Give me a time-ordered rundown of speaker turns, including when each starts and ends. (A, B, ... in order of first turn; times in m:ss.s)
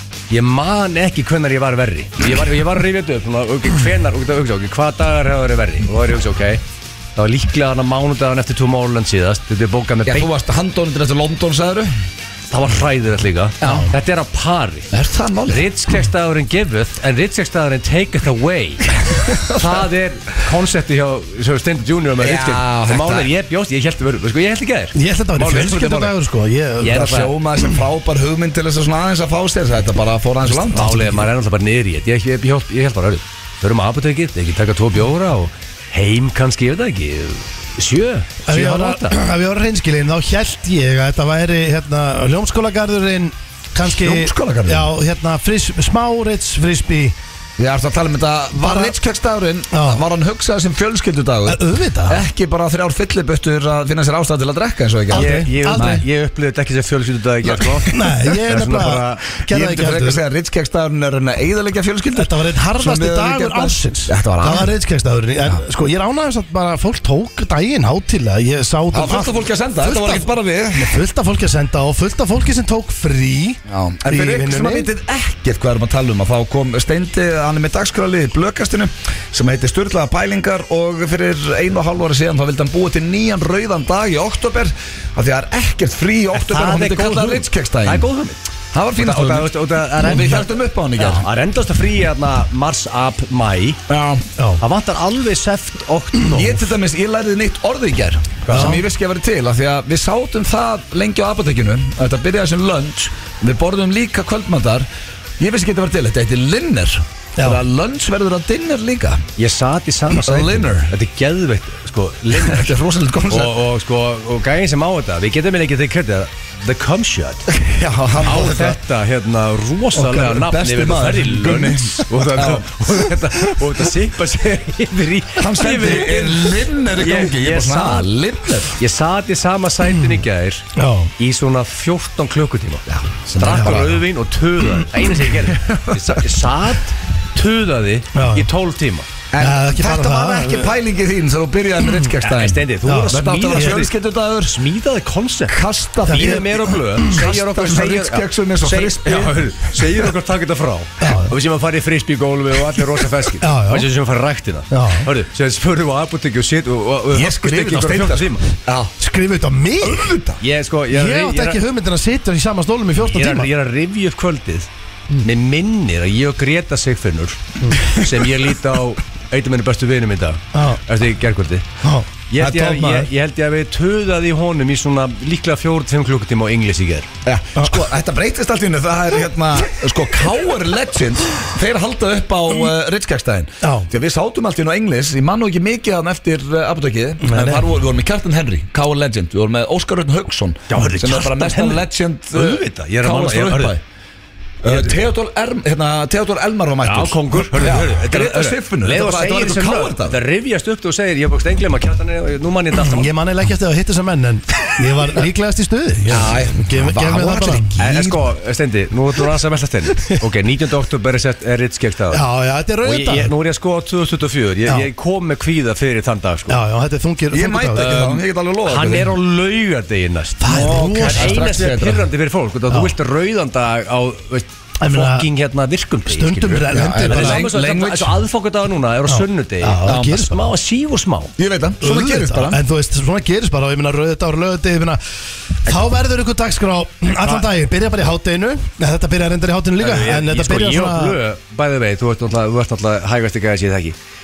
0:00.3-0:06.6 A
0:07.2-0:10.3 A
0:10.1-0:11.9 B
0:12.5-0:14.9 A
0:13.6-0:13.9 B
0:14.9-0:15.7 B
0:15.5-0:25.0 A
0:19.1-0:19.8 B
0:22.2-0:23.3 B
0:25.0-0:27.2 C
0:25.4-0:26.2 B
0:26.8-0:27.3 A
0:26.8-0:31.2 B
0:30.4-0:39.2 A
0:38.5-0:47.2 C
0:43.9-0:44.9 B
0:47.6-0:56.0 B
0:48.6-0:49.0 C
0:49.7-0:50.0 C
0:51.5-0:52.2 C
0:55.1-0:56.0 C
0:55.1-0:59.2 A
0:57.5-0:57.8 B
0:57.9-1:00.2 C
0:59.5-1:04.7 B
1:02.1-1:14.9 C
1:08.9-1:11.0 B
1:13.7-1:28.1 B
1:26.3-1:28.4 A
1:28.7-1:31.3 B
1:29.0-1:33.8 A
1:33.9-1:34.3 B
1:34.6-1:36.7 A
1:36.3-1:44.9 B
1:38.5-1:38.8 A
1:38.5-1:38.8 C
1:45.4-1:49.2 B
1:49.4-1:52.8 A
1:50.2-1:51.0 B
1:52.3-1:53.6 B
1:53.3-1:57.5 A
1:57.5-1:58.8 B
1:58.2-2:08.1 A
1:59.9-2:02.7 B
2:05.4-2:08.8 B
2:08.7-2:10.7 A
2:10.8-2:11.1 C
2:11.2-2:19.1 A
2:12.9-2:14.0 B
2:13.5-2:13.8 C
2:15.5-2:16.3 B
2:18.2-2:18.5 C
2:19.3-2:24.6 B
2:19.4-2:20.7 C
2:22.2-2:38.5 A
2:22.8-2:23.8 C
2:25.5-2:30.1 B
2:26.1-2:26.4 C
2:31.0-2:31.4 C
2:33.4-2:33.9 C
2:34.7-2:35.1 C
2:37.1-2:39.0 B
2:39.0-2:40.1 C
2:39.8-2:40.4 B
2:40.4-2:41.6 A
2:40.9-2:43.5 C
2:43.0-2:44.7 A
2:45.2-2:51.7 A
2:50.5-2:50.8 C
2:51.8-2:52.1 C
2:52.3-2:57.1 A
2:52.4-2:53.1 B
2:57.2-3:13.8 B
3:03.6-3:03.9 C
3:07.2-3:07.7 C
3:10.7-3:13.8 A
3:14.6-3:20.2 B
3:16.8-3:23.1 A
3:22.7-3:27.7 C
3:26.1-3:28.3 B
3:27.8-3:32.2 A
3:32.1-3:33.3 C
3:32.8-3:36.6 A
3:36.5-3:38.2 C
3:37.3-3:39.1 B
3:38.6-3:51.3 A
3:40.4-3:41.5 C
3:40.5-3:42.1 B
3:42.7-3:43.0 C
3:44.8-3:45.3 C
3:46.1-3:47.4 C
3:46.7-3:48.2 B
3:49.1-3:50.5 C
3:49.8-3:50.2 B
3:51.4-3:52.6 B
3:51.8-3:55.0 C
3:55.7-4:01.2 C
3:59.8-4:04.0 A